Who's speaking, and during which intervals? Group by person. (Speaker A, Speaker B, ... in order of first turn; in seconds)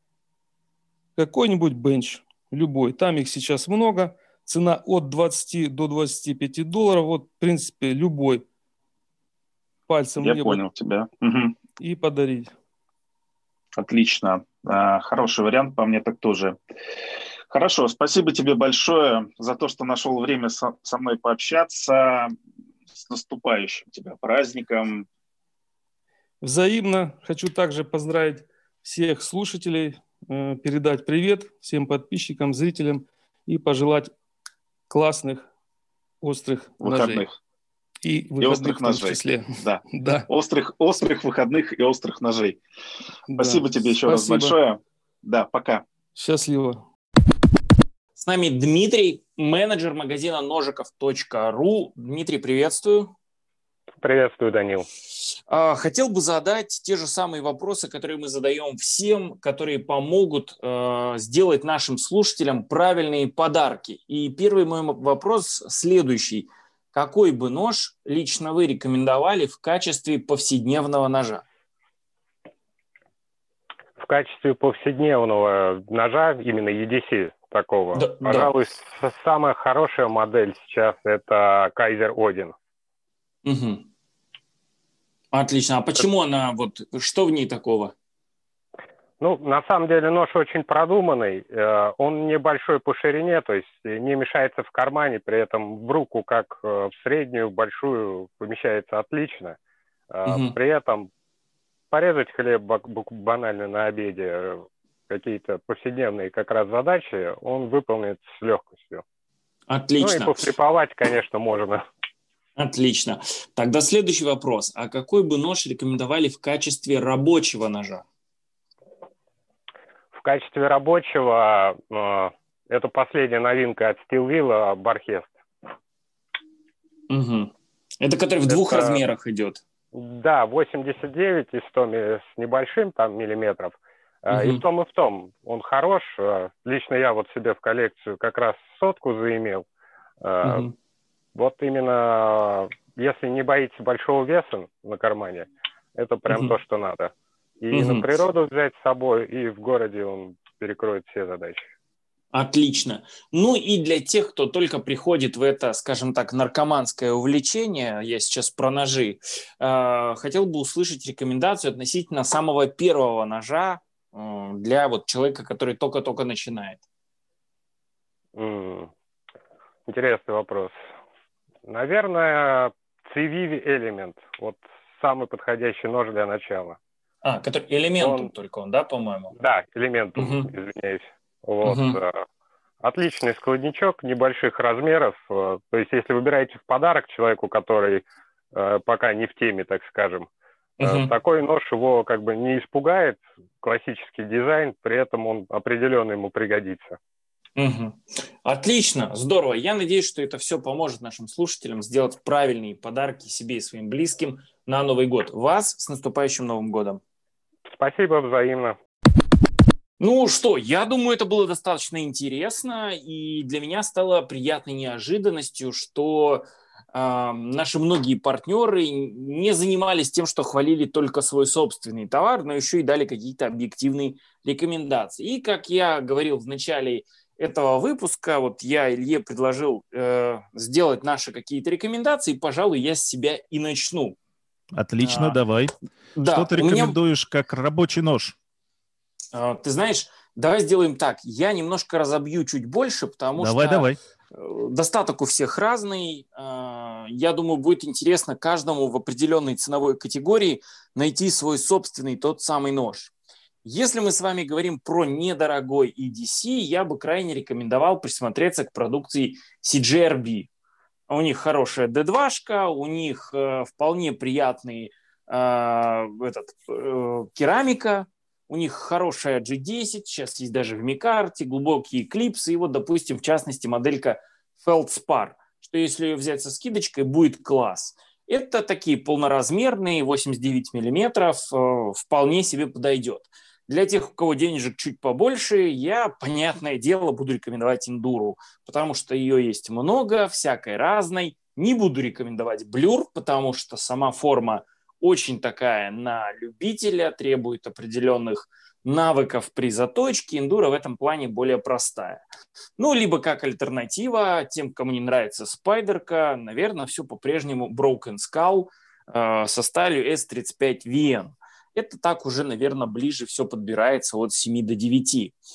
Speaker A: 1.2-8.4, 9.9-10.6, 11.8-12.5, 26.4-34.1, 34.9-35.5, 36.2-37.3, 38.0-40.3, 43.3-44.6, 46.1-46.8
Speaker B: 10.2-11.6, 13.8-16.6, 17.5-22.3, 23.0-25.1, 36.8-37.3, 38.4-42.6, 43.4-45.8
Speaker C: 48.2-53.1, 55.3-71.4, 77.9-78.5, 83.5-83.9, 85.3-87.9, 100.3-100.6, 109.7-110.5, 112.6-118.0, 127.1-129.6, 134.3-134.6, 140.4-140.7, 146.3-146.6, 147.7-148.1, 152.3-166.8, 177.2-179.3, 180.2-180.5, 181.6-182.0, 190.8-191.2, 197.6-207.0, 210.0-234.2, 235.0-235.4, 236.2-237.0, 239.3-253.1, 253.7-260.5, 261.1-302.2, 302.8-315.4
Speaker D: 54.0-54.9, 74.0-82.5, 89.2-99.6, 100.1-101.1, 101.9-109.0, 110.0-111.8, 120.1-125.3, 128.5-129.0, 129.9-139.7, 140.2-140.7, 141.3-151.6, 168.4-168.9, 169.9-170.8, 171.7-176.8, 178.0-178.3, 179.3-182.2, 182.8-190.3, 190.8-197.0, 207.7-208.8
Speaker E: 234.7-238.4, 243.4-244.0